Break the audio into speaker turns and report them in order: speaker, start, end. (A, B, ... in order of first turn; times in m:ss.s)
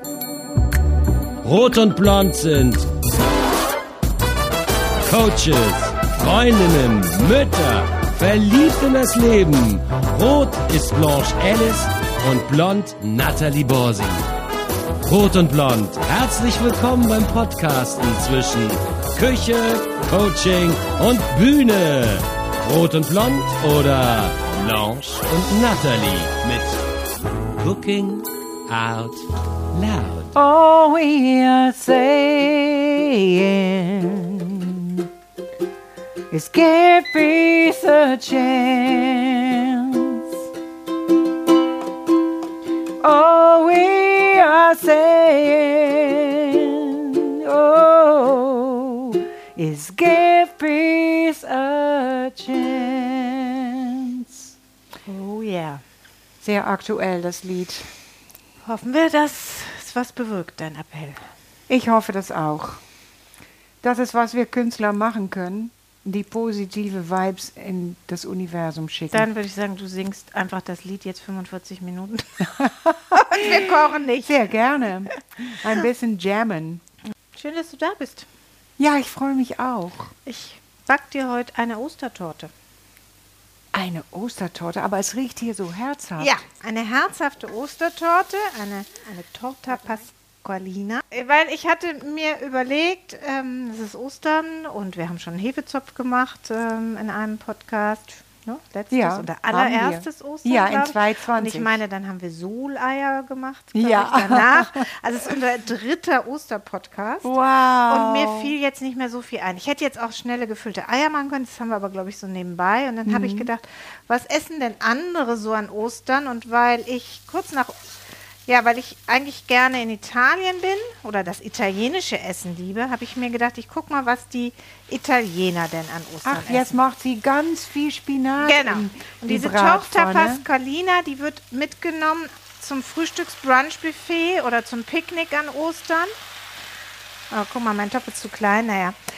0:01.4-0:02.9 A
0:05.0-0:14.3 A
0:15.0-0:26.8 A
0:27.6-0:30.3 A
0:30.3-0:35.1 B
0:36.3-0:40.4 B
0:43.0-0:54.5 B
0:55.1-0:55.8 C
0:56.4-0:57.9 B
0:58.6-1:01.2 C
1:01.7-1:02.8 B
1:03.8-1:09.3 B
1:09.1-1:14.4 C
1:12.6-1:16.8 B
1:17.3-1:18.3 C
1:18.8-1:20.1 B
1:20.2-1:22.5 C
1:23.7-1:26.3 B
1:26.2-1:47.3 C
1:38.9-1:41.8 B
1:43.8-1:44.9 B
1:47.2-1:48.5 B
1:47.9-1:57.8 C
1:53.1-1:53.5 B
1:58.4-2:06.7 C
2:06.2-2:10.4 B
2:08.4-2:16.1 C
2:17.3-2:19.0 C